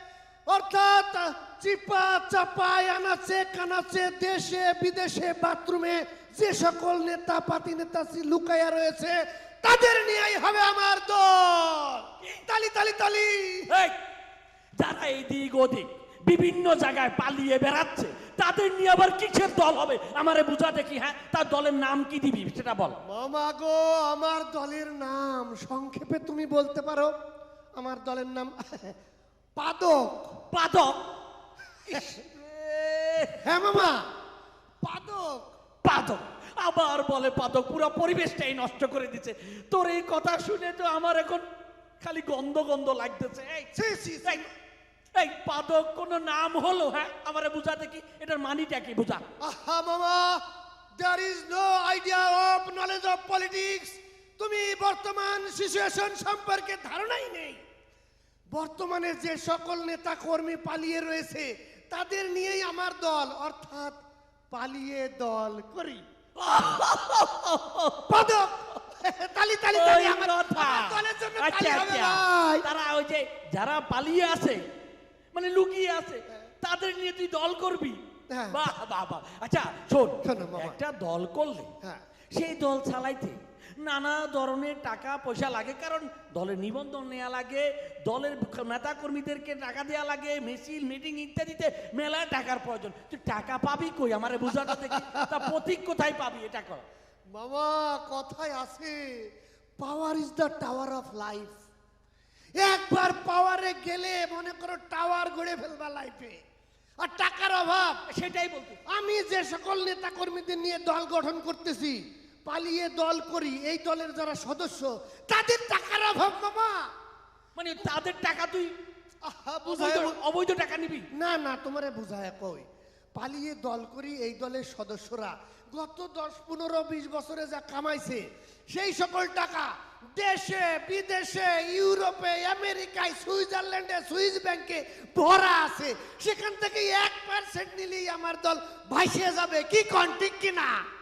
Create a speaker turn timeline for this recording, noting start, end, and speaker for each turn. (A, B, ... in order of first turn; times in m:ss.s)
0:00.5-0:13.7 A
0:13.7-0:13.9 B
0:14.8-0:23.0 B
0:23.0-0:27.1 A
0:27.8-0:28.9 A
0:29.6-0:30.3 A
0:30.5-0:31.1 B
0:31.8-0:33.5 B
0:33.4-0:34.0 A
0:34.8-0:35.5 A
0:35.8-0:41.4 B
0:42.0-0:43.7 B
0:43.7-0:44.5 A
0:45.1-0:49.2 B
0:49.4-0:50.4 A
0:51.0-0:57.6 A
0:58.5-1:04.0 A
1:04.5-1:06.0 A
1:06.4-1:08.3 B
1:08.1-1:12.6 A
1:09.7-1:14.6 B
1:15.3-1:18.0 B
1:18.3-1:18.6 A
1:18.5-1:21.7 B
1:20.2-1:20.8 A
1:22.3-1:36.8 B
1:37.3-1:41.6 A
1:42.6-1:46.4 A
1:47.0-1:48.0 A
1:48.1-1:48.8 B
1:48.9-1:56.9 A
1:57.5-1:58.7 B
1:59.2-2:00.2 A
1:59.7-2:01.0 B
2:01.2-2:20.8 A